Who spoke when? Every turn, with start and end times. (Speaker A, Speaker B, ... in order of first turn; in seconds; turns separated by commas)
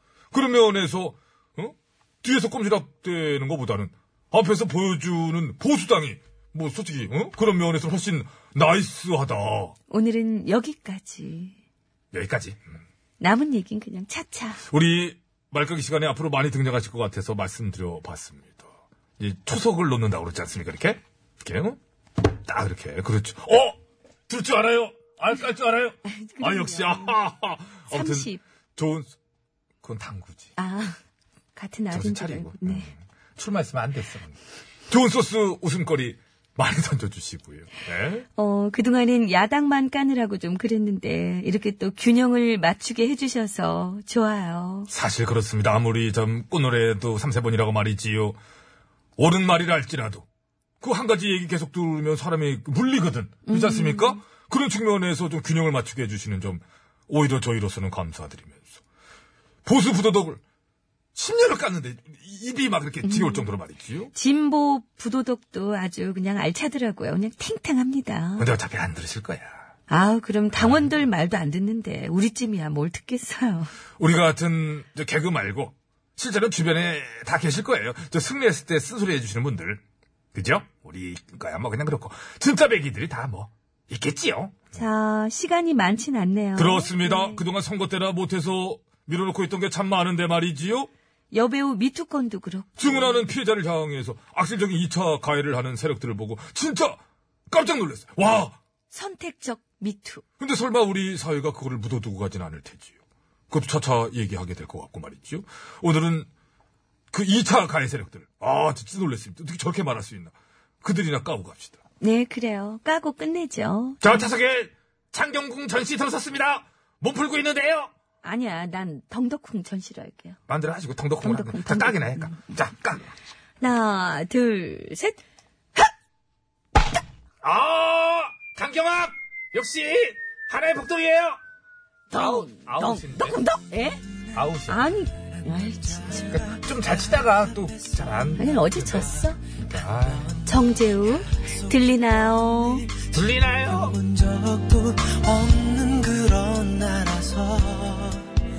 Speaker A: 0.3-9.7, Speaker B: 9.9-11.5, Speaker A: 12.1-12.6, Speaker B: 13.2-14.6, Speaker A: 14.7-18.6, Speaker A: 19.2-21.8, Speaker A: 22.4-29.1, Speaker B: 26.1-27.2, Speaker B: 27.9-28.4, Speaker A: 29.8-30.5, Speaker B: 30.6-31.0, Speaker B: 31.6-32.9, Speaker A: 31.9-34.4, Speaker A: 34.9-38.2, Speaker B: 38.4-44.9, Speaker A: 44.9-48.4, Speaker A: 49.2-50.2, Speaker A: 50.8-58.8, Speaker B: 53.5-54.2, Speaker A: 59.6-60.4, Speaker A: 61.1-64.1, Speaker B: 63.0-63.5, Speaker B: 64.1-68.5, Speaker A: 68.4-69.6, Speaker B: 69.9-73.7, Speaker A: 70.5-70.8, Speaker A: 74.0-79.8, Speaker A: 80.3-84.7, Speaker B: 84.7-87.4, Speaker A: 86.6-90.9, Speaker B: 91.3-93.2, Speaker A: 92.8-98.6, Speaker B: 98.9-100.2, Speaker A: 100.4-102.9, Speaker A: 103.5-106.3, Speaker A: 107.1-111.8, Speaker B: 112.0-114.2, Speaker A: 114.0-117.9, Speaker B: 118.2-120.4, Speaker A: 120.5-123.1, Speaker B: 121.2-122.5, Speaker B: 123.6-125.2, Speaker A: 127.4-131.4, Speaker A: 132.1-133.4, Speaker B: 132.2-134.0, Speaker A: 134.3-134.8, Speaker B: 134.7-136.3, Speaker A: 136.2-140.4, Speaker B: 138.4-139.4, Speaker B: 140.4-142.9, Speaker A: 142.9-144.0, Speaker C: 144.1-148.2